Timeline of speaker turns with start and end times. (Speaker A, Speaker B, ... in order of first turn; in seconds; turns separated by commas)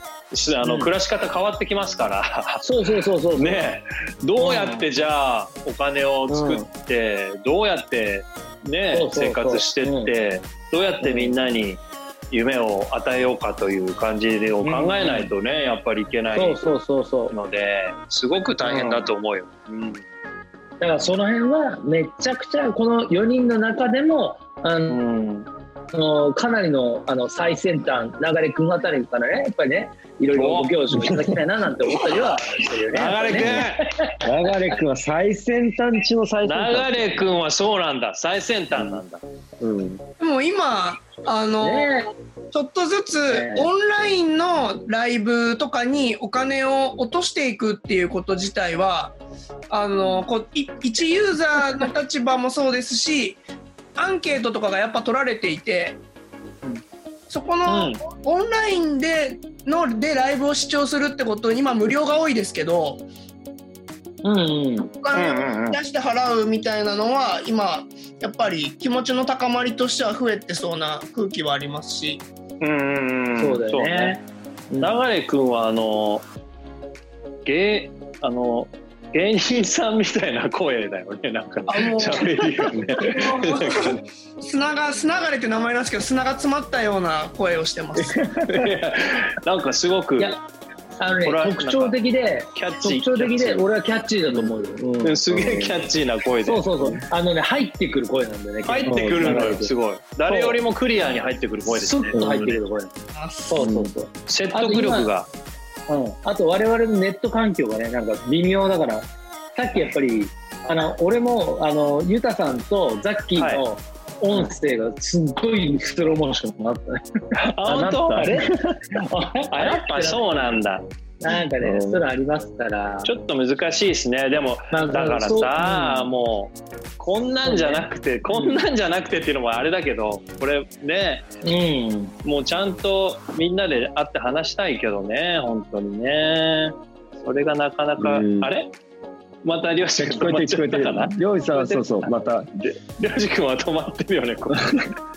Speaker A: 0.3-2.6, Speaker B: 0.6-0.9, Speaker B: 2.6-3.7, Speaker A: 3.4-11.8, Speaker B: 4.4-4.9, Speaker B: 6.3-6.7, Speaker B: 8.9-10.1, Speaker B: 11.0-11.4, Speaker A: 12.3-16.6, Speaker B: 14.6-15.3, Speaker B: 16.3-17.4, Speaker A: 17.3-20.0, Speaker B: 18.6-19.1, Speaker B: 20.8-25.0, Speaker A: 24.9-25.5, Speaker B: 25.9-34.2, Speaker A: 30.3-30.8, Speaker C: 30.9-31.4, Speaker A: 32.9-33.9, Speaker C: 33.3-33.6, Speaker C: 34.2-37.2, Speaker A: 36.5-39.2, Speaker C: 38.7-39.0, Speaker C: 39.6-40.0, Speaker D: 40.2-42.0, Speaker B: 41.6-42.1, Speaker D: 42.5-49.2, Speaker B: 43.3-43.7, Speaker D: 49.7-53.4, Speaker D: 54.0-56.0, Speaker D: 57.3-63.0, Speaker B: 64.2-64.9, Speaker D: 65.0-72.2, Speaker A: 65.1-65.8, Speaker A: 72.6-74.2, Speaker B: 73.4-75.0, Speaker A: 74.8-76.3, Speaker A: 77.5-84.0, Speaker D: 81.7-88.2, Speaker B: 82.0-83.2, Speaker C: 88.0-88.8, Speaker A: 88.5-90.4, Speaker B: 91.0-95.2, Speaker A: 91.2-92.0, Speaker A: 92.5-93.7, Speaker A: 95.0-96.7, Speaker C: 95.3-95.8, Speaker B: 96.5-99.7, Speaker A: 98.7-102.6, Speaker C: 98.8-99.5, Speaker B: 100.3-100.6, Speaker B: 101.7-102.9, Speaker C: 102.1-102.4, Speaker D: 103.2-103.5, Speaker B: 103.5-105.1, Speaker C: 103.6-103.9, Speaker A: 104.3-105.3, Speaker B: 105.9-117.0, Speaker A: 113.4-113.6, Speaker A: 117.3-118.4, Speaker C: 117.7-118.7, Speaker B: 118.2-118.5, Speaker B: 119.0-120.5, Speaker A: 119.5-120.9, Speaker B: 121.2-123.1, Speaker C: 121.6-122.1, Speaker A: 123.0-131.3, Speaker B: 124.7-126.1, Speaker B: 127.5-127.8, Speaker B: 131.4-132.1, Speaker A: 132.2-138.7, Speaker C: 138.0-138.5, Speaker A: 139.4-144.9, Speaker C: 140.0-142.5